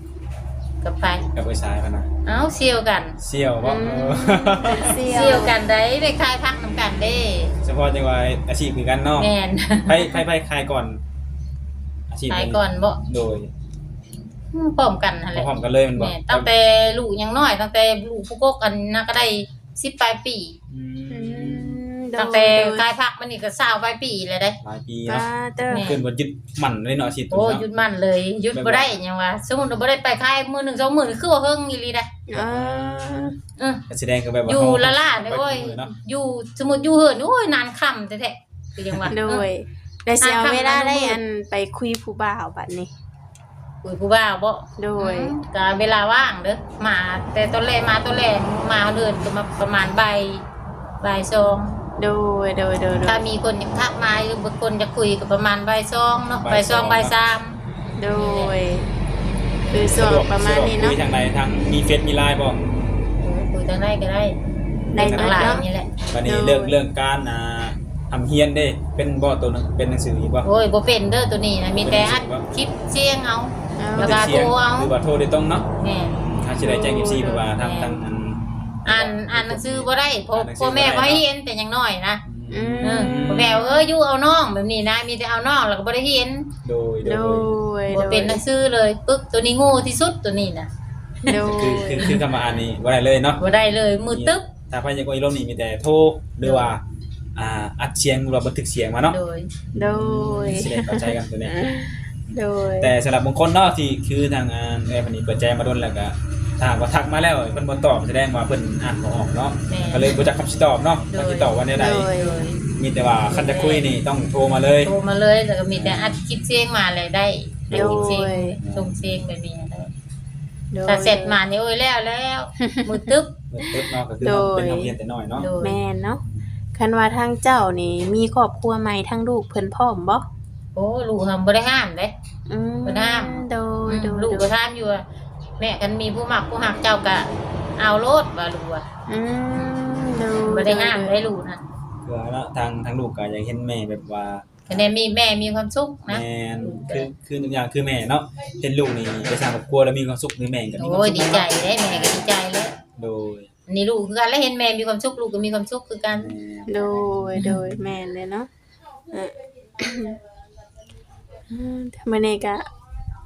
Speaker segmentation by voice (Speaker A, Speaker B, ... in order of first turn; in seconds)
Speaker A: 0.8-1.2, 2.2-3.2, 5.0-7.5, 9.2-10.2, 12.3-13.0, 14.5-20.6, 22.2-24.6, 25.7-26.0, 27.3-32.1, 33.6-33.8, 34.5-39.5, 40.2-41.2, 43.8-50.4, 51.0-51.8, 53.0-58.5, 63.2-64.3, 65.0-65.9, 70.4-74.9, 75.8-76.2, 77.5-78.0, 78.8-82.2, 82.8-86.5, 87.9-90.7, 91.3-92.2, 93.4-94.5, 96.4-96.7, 99.1-99.5, 109.7-110.2, 111.1-112.6, 113.3-113.9, 114.8-119.9, 120.8-123.4, 125.3-125.8, 130.7-132.1, 132.8-135.0, 135.6-137.3, 137.8-138.8, 139.5-141.6, 144.7-147.1, 150.8-152.7, 153.7-156.3
Speaker B: 1.3-2.1, 3.2-5.0, 7.6-9.3, 9.8-11.0, 12.1-13.5, 15.3-16.5, 20.7-21.8, 24.6-27.6, 28.5-29.0, 32.3-33.2, 33.9-35.9, 56.4-57.1, 59.7-62.6, 64.9-70.5, 71.8-72.5, 74.0-75.7, 76.4-81.2, 82.2-83.6, 86.6-87.6, 91.3-93.4, 94.1-96.8, 97.3-99.2, 99.7-101.6, 102.8-112.1, 112.7-114.9, 115.7-116.1, 117.7-118.9, 123.5-125.5, 142.0-144.9, 146.1-152.3, 152.9-153.5, 156.1-157.8
Speaker C: 3.6-5.5, 21.1-22.8, 25.1-25.9, 32.3-33.4, 39.1-42.9, 44.8-45.3, 52.0-53.2, 58.0-58.9, 59.7-61.0, 64.9-65.6, 66.2-66.8, 73.8-74.4, 76.6-77.4, 82.5-83.9, 87.0-88.4, 91.3-92.1, 99.7-102.9, 111.8-112.4, 117.7-118.6, 120.7-121.4, 122.6-123.0, 124.2-124.9, 125.6-126.2, 126.7-130.2, 132.5-134.5, 139.1-141.2, 156.7-158.5, 159.1-160.2, 161.5-162.7